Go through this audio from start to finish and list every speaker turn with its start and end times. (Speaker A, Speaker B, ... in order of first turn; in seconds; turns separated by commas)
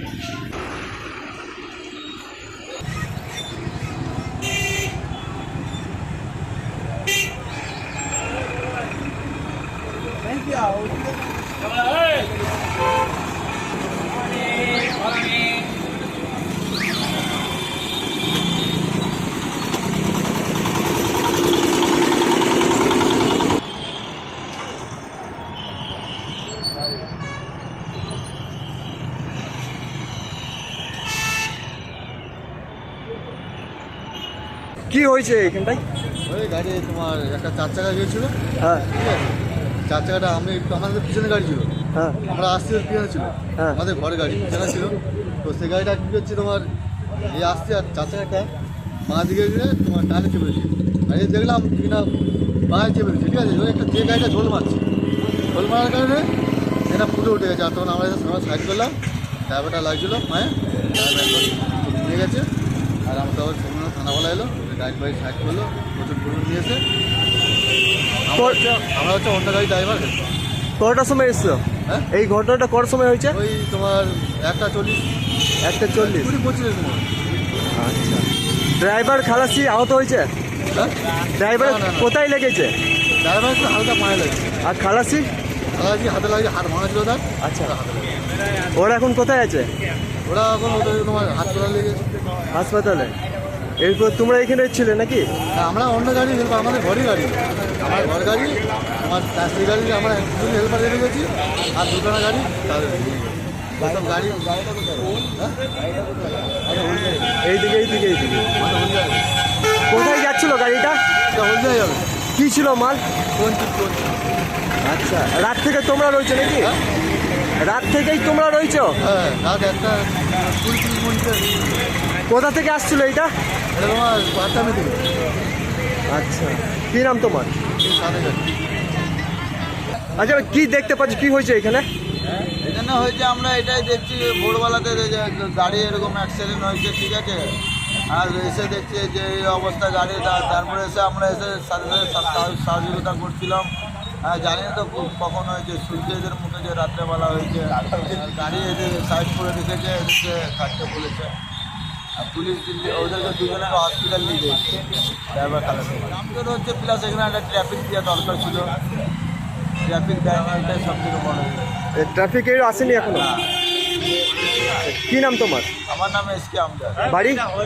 Speaker A: 34.9-35.8, Speaker B: 36.3-38.3, Speaker B: 38.9-39.3, Speaker B: 39.9-41.7, Speaker A: 41.9-42.2, Speaker B: 42.2-46.7, Speaker B: 47.2-48.5, Speaker B: 49.0-52.1, Speaker B: 52.7-54.8, Speaker B: 55.5-56.3, Speaker B: 56.9-59.0, Speaker B: 59.5-62.5, Speaker B: 63.1-66.8, Speaker B: 68.3-70.2, Speaker A: 70.8-73.4, Speaker B: 73.3-75.0, Speaker A: 75.6-76.3, Speaker B: 76.0-77.1, Speaker A: 77.7-78.2, Speaker A: 78.8-80.3, Speaker A: 81.4-82.7, Speaker B: 81.6-82.1, Speaker B: 83.2-84.5, Speaker A: 84.6-85.3, Speaker B: 85.7-88.2, Speaker A: 87.4-87.7, Speaker A: 88.8-89.7, Speaker B: 90.2-92.0, Speaker A: 92.5-93.1, Speaker A: 93.8-95.3, Speaker B: 95.5-104.5, Speaker B: 106.6-107.3, Speaker A: 107.4-108.5, Speaker B: 108.6-109.2, Speaker A: 109.9-111.0, Speaker B: 111.3-112.0, Speaker A: 112.3-113.0, Speaker B: 113.3-114.2, Speaker A: 114.8-116.7, Speaker A: 117.6-119.0, Speaker B: 119.0-121.8, Speaker A: 122.3-123.3, Speaker B: 123.7-125.0, Speaker A: 126.1-127.6, Speaker B: 127.8-128.5, Speaker A: 130.2-131.8, Speaker C: 132.6-137.5, Speaker C: 138.1-143.7, Speaker C: 144.2-151.3, Speaker C: 152.2-154.8, Speaker C: 155.3-158.7, Speaker C: 159.8-161.7, Speaker A: 161.9-163.3, Speaker C: 163.1-163.4, Speaker A: 164.8-165.7, Speaker C: 165.9-167.0, Speaker A: 167.0-167.4